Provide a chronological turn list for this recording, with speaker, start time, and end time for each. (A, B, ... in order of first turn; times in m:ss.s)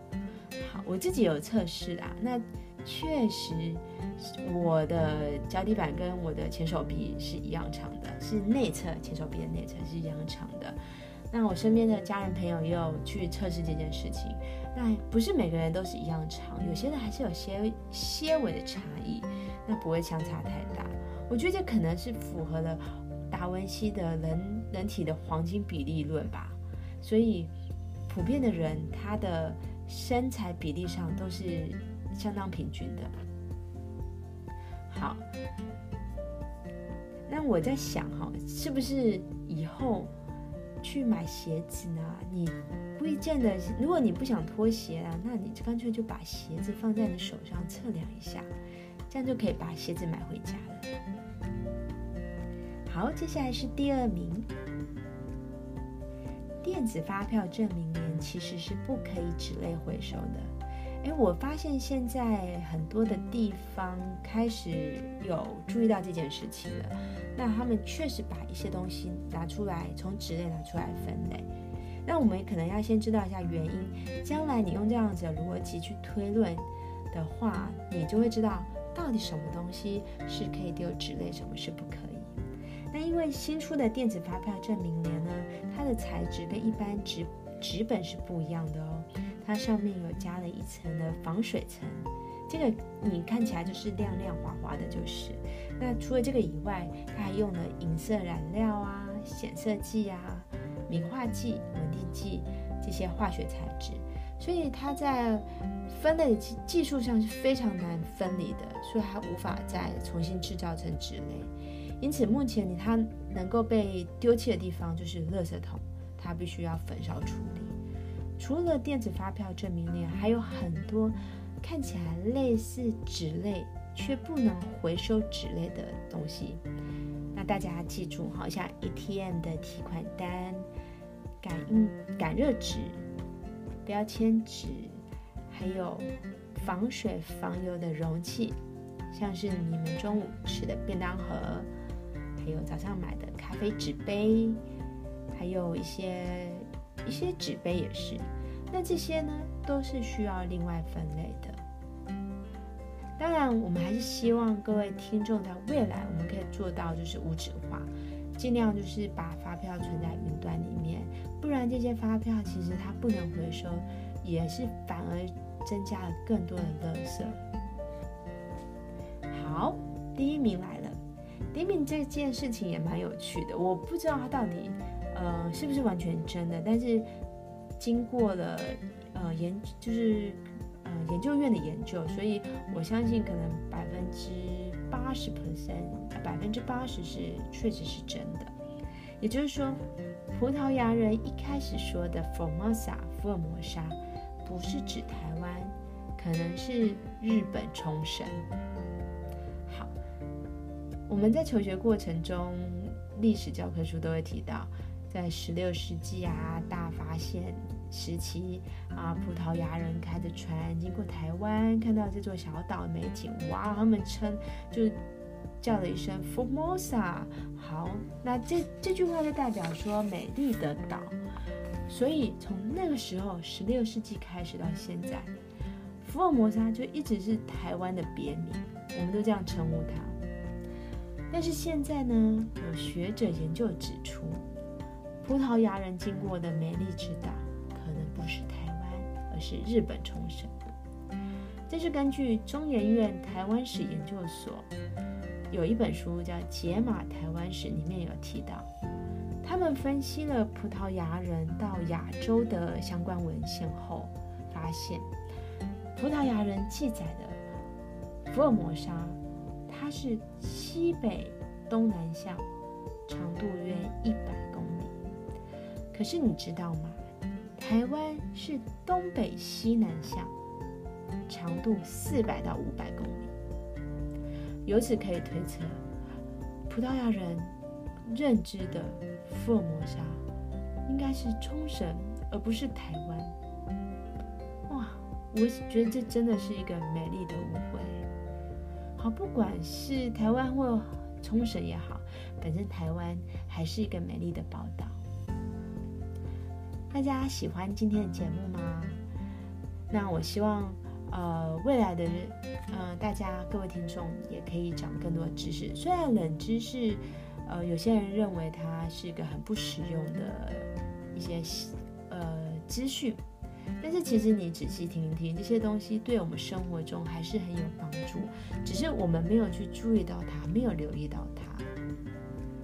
0:00.6-0:10.8 A
0:11.3-0:27.5 A
0:28.1-0:33.1 A
0:34.9-0:35.2 A
0:37.3-0:40.1 A
0:40.8-0:48.5 A
0:49.1-0:50.9 A
0:52.8-0:54.5 A
0:56.6-1:11.5 A
1:12.0-1:22.3 A
1:22.9-1:57.7 A
1:58.4-2:06.6 A
2:07.3-2:10.7 A
2:11.4-2:13.0 A
2:13.8-2:18.6 A
2:19.1-2:21.7 A
2:22.4-2:24.6 A
2:25.3-2:31.6 A
2:33.2-2:47.4 A
2:49.3-2:51.0 A
2:51.5-2:57.1 A
2:57.8-3:08.5 A
3:09.2-3:18.4 A
3:19.6-3:19.9 A
3:21.1-3:35.0 A
3:35.6-3:41.2 A
3:41.9-3:45.3 A
3:46.0-3:50.2 A
3:51.3-3:54.4 A
3:55.2-4:00.7 A
4:01.7-4:04.7 A
4:05.5-4:08.7 A
4:09.4-4:15.1 A
4:15.9-4:17.4 A
4:18.2-4:22.4 A
4:23.1-4:25.0 A
4:25.9-4:27.0 A
4:27.6-4:30.3 A
4:31.3-4:33.3 A
4:34.6-4:35.8 A
4:36.7-4:40.2 A
4:40.8-4:43.4 A
4:44.7-4:48.0 A
4:49.0-4:55.0 A
4:56.9-4:59.0 A
4:59.9-5:13.2 A
5:13.8-5:21.7 A